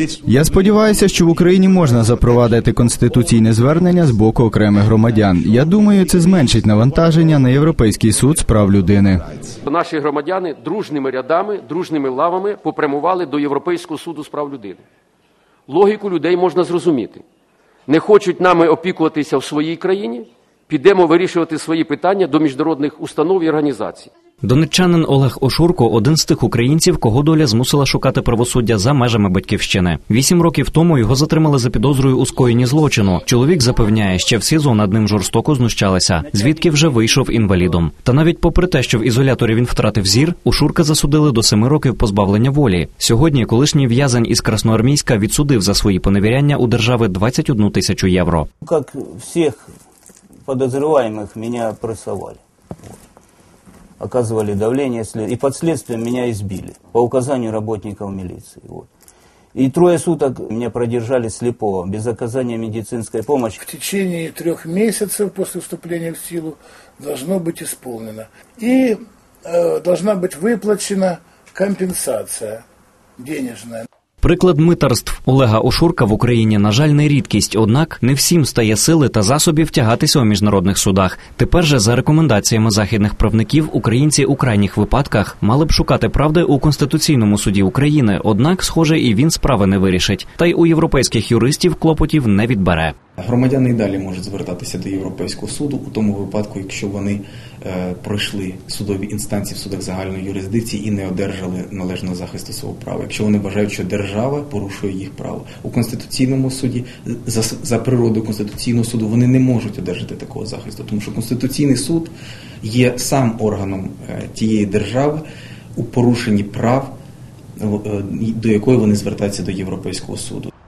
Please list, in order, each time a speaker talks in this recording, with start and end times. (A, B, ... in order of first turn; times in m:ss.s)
0:00.1-0:09.4 A
0:09.6-0:14.8 B
0:15.7-0:17.2 B
0:17.9-0:24.1 B
0:24.4-0:48.5 C
0:48.6-0:49.7 D
0:50.4-0:52.4 D
0:54.0-0:58.9 D
0:59.5-1:03.6 D
1:03.6-1:12.6 E
1:13.2-1:13.8 E
1:14.2-1:32.9 C
1:33.2-1:52.1 F
1:52.6-1:55.2 F
1:55.8-1:56.9 F
1:57.6-2:00.5 F